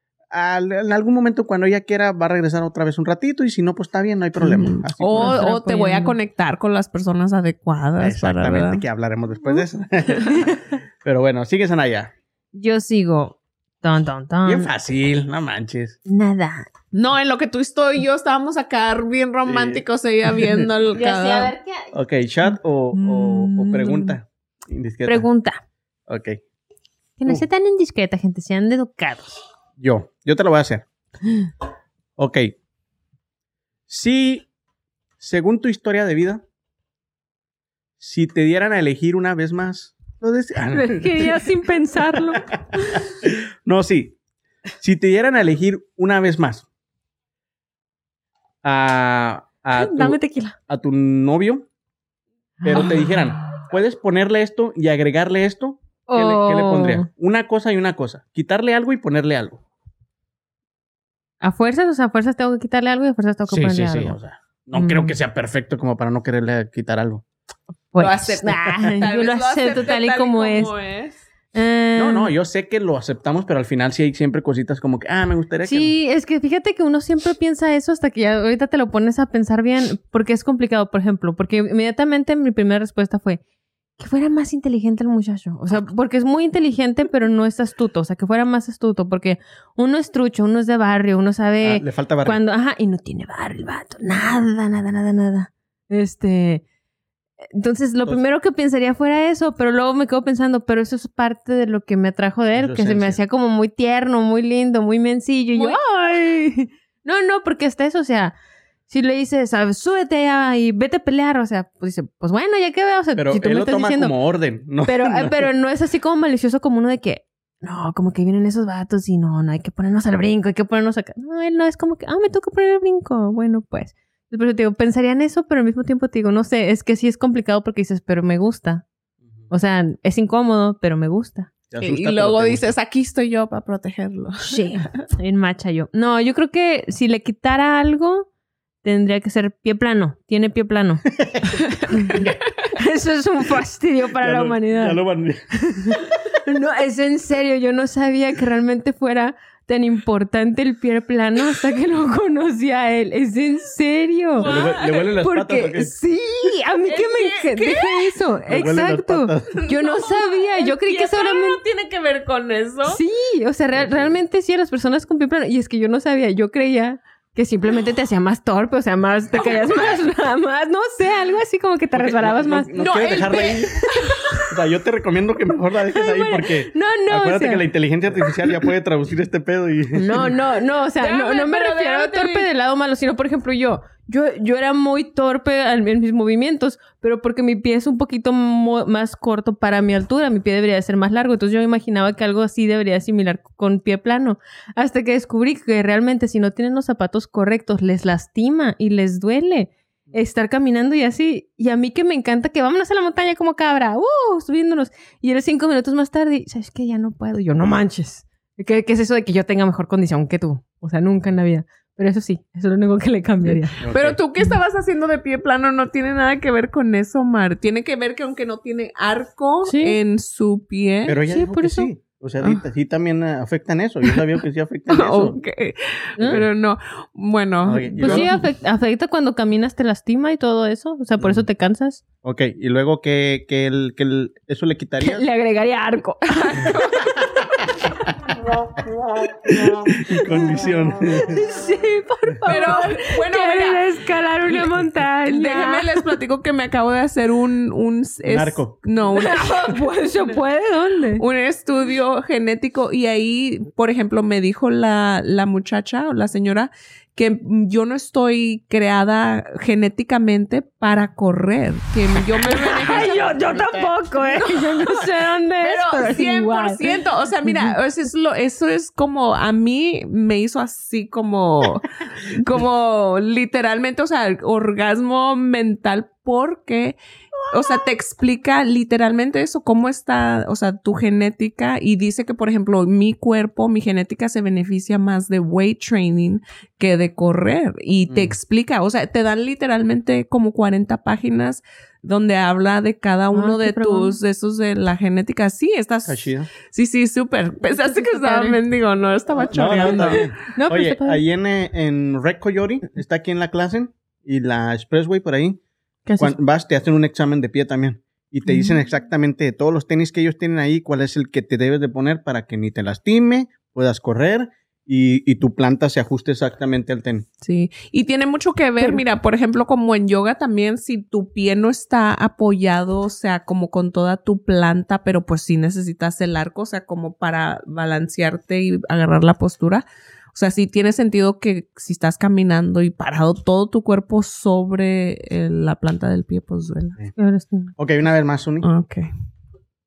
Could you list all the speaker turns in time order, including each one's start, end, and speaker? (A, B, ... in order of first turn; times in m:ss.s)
0:00.3-0:05.4 A
0:04.4-0:08.8 B
0:05.1-0:06.2 C
0:08.0-0:12.1 A
0:12.5-0:14.7 C
0:14.4-0:16.0 A
0:16.1-0:16.7 C
0:16.9-0:21.6 B
0:19.4-0:19.8 A
0:20.9-0:21.9 C
0:21.9-0:25.2 A
0:22.9-0:24.2 C
0:25.0-0:25.6 C
0:26.1-0:26.4 A
0:27.2-0:29.4 C
0:29.8-0:30.8 A
0:32.2-0:32.5 A
0:33.9-0:34.5 A
0:35.2-0:36.4 A
0:38.0-0:41.5 A
0:40.7-0:43.0 C
0:42.1-0:44.1 A
0:44.8-0:46.6 A
0:48.6-0:51.6 A
0:49.8-0:50.6 C
0:52.6-0:53.6 C
0:52.6-0:59.6 A
0:56.1-0:57.1 C
1:01.4-1:04.2 C
1:03.5-1:07.2 A
1:04.8-1:05.1 C
1:07.9-1:10.7 C
1:08.0-1:11.2 B
1:11.5-1:12.3 C
1:12.0-1:15.9 A
1:15.6-1:23.4 C
1:24.0-1:36.6 C
1:31.6-1:32.4 A
1:37.5-1:48.3 C
1:42.5-1:43.2 A
1:48.9-1:54.1 C
1:53.1-1:55.5 A
1:54.8-2:08.8 C
2:09.5-2:11.5 C
2:11.7-2:12.7 A
2:11.8-2:15.0 B
2:14.5-2:18.3 C
2:18.8-2:21.0 C
2:21.1-2:21.5 A
2:21.6-2:22.5 B
2:22.8-2:25.0 C
2:24.2-2:26.0 A
2:25.6-2:34.5 C
2:34.4-2:35.1 B
2:34.4-2:35.9 A
2:35.2-2:41.6 C
2:36.8-2:38.2 B
2:38.5-2:39.6 A
2:39.5-2:43.0 B
2:42.8-2:52.7 C
2:43.7-2:44.1 A
2:49.4-2:49.7 B
2:51.9-2:53.8 A
2:52.8-2:54.2 B
2:54.0-2:54.5 C
2:54.5-3:00.3 A
2:55.9-2:57.6 C
2:59.9-3:33.7 C
3:01.0-3:02.5 B
3:33.4-3:41.2 B
3:33.8-3:34.2 A
3:39.6-3:40.0 C
3:41.0-3:45.4 A
3:41.3-3:41.9 C
3:44.9-3:48.3 B
3:47.6-3:48.3 A
3:48.0-3:52.0 C
3:52.2-3:55.2 A
3:55.0-3:57.2 C
3:56.3-3:57.2 B
3:59.0-4:01.4 A
4:01.2-4:06.0 C
4:02.4-4:03.9 B
4:05.2-4:10.4 B
4:08.2-4:08.7 A
4:09.1-4:11.2 C
4:11.2-4:37.0 B
4:22.4-4:26.8 C
4:27.4-4:27.7 C
4:37.5-5:00.3 B
4:48.1-4:48.4 A
4:53.3-4:54.2 C
4:56.0-4:56.5 A
4:57.7-4:58.6 C
4:59.4-5:05.6 A
4:59.9-5:01.2 C
5:06.0-5:06.4 C
5:06.2-5:17.2 A
5:17.4-5:37.0 B
5:37.1-5:37.7 C
5:37.8-5:38.7 A
5:38.6-5:39.1 B